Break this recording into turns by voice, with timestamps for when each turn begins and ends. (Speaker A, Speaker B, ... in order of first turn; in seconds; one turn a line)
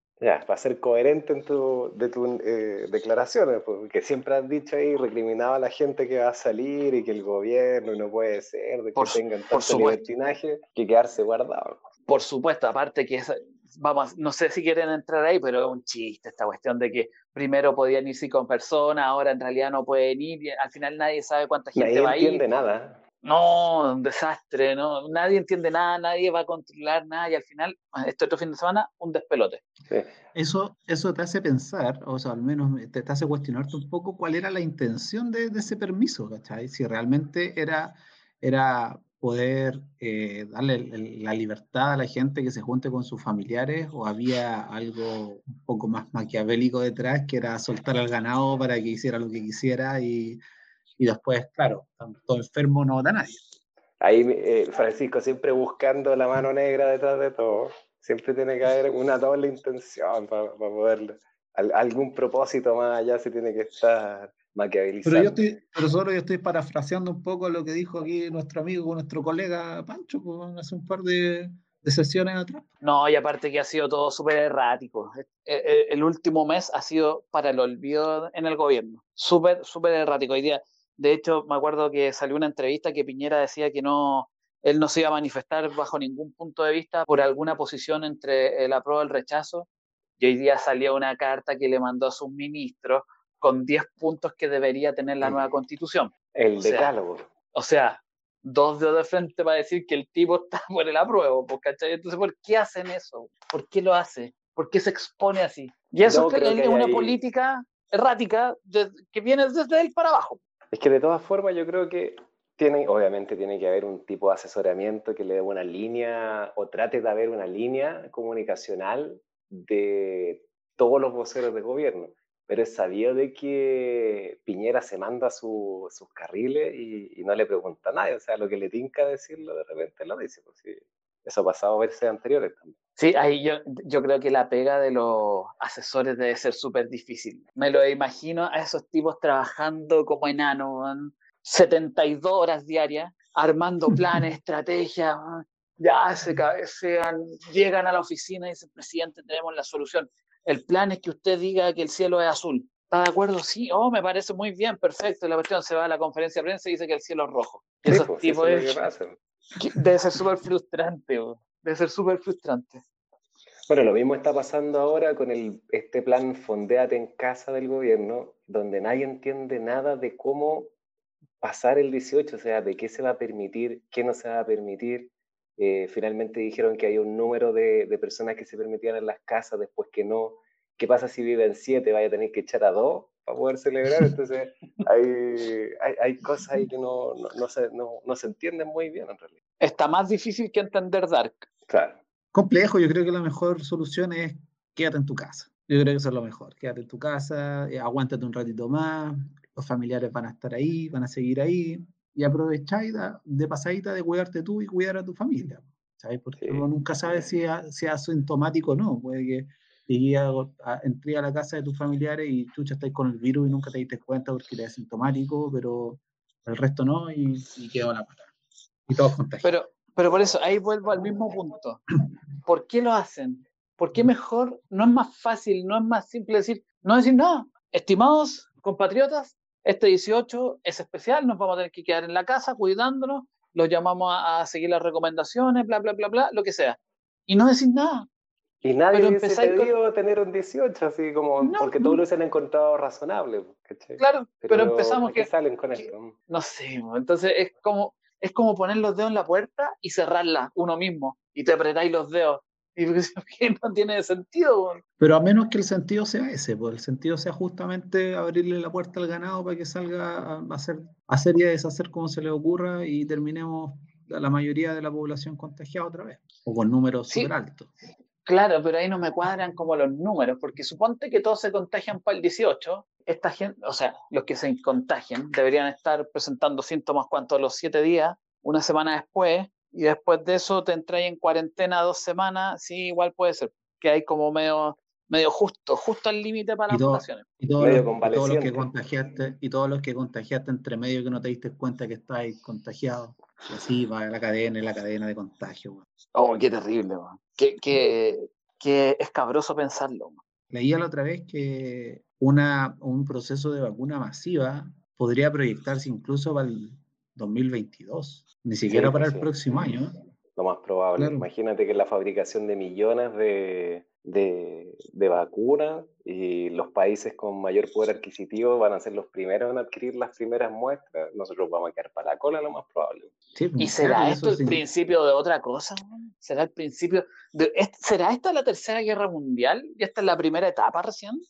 Speaker A: 0.2-11.8
Speaker B: 8.9-10.1
Speaker B: 12.1-22.4
Speaker A: 21.7-23.0
Speaker B: 23.2-29.6
Speaker C: 30.3-50.4
Speaker C: 51.0-53.5
Speaker A: 54.0-65.4
Speaker C: 65.0-72.7
Speaker B: 72.8-89.7
Speaker B: 90.2-96.9
Speaker A: 95.2-95.5
Speaker A: 96.3-97.3
Speaker B: 97.5-110.4
Speaker A: 106.0-107.2
Speaker A: 110.7-132.8
Speaker B: 133.0-158.8
Speaker A: 157.8-159.2
Speaker B: 159.6-162.8
Speaker A: 163.7-170.7
Speaker A: 171.4-189.3
Speaker B: 189.6-191.4
Speaker A: 191.7-192.0
Speaker C: 192.3-218.3
Speaker A: 206.4-207.3
Speaker C: 218.9-219.5
Speaker B: 219.4-221.8
Speaker B: 222.4-238.1
Speaker A: 238.6-246.1
Speaker B: 238.9-239.7
Speaker B: 241.4-242.0
Speaker B: 244.0-254.8
Speaker C: 255.0-267.7
Speaker B: 268.2-287.2
Speaker C: 286.7-295.8
Speaker A: 287.6-288.7
Speaker B: 296.1-300.2
Speaker C: 300.5-310.0
Speaker A: 308.7-309.3
Speaker A: 310.4-323.1
Speaker C: 311.0-311.3
Speaker C: 323.3-324.6
Speaker B: 323.6-331.2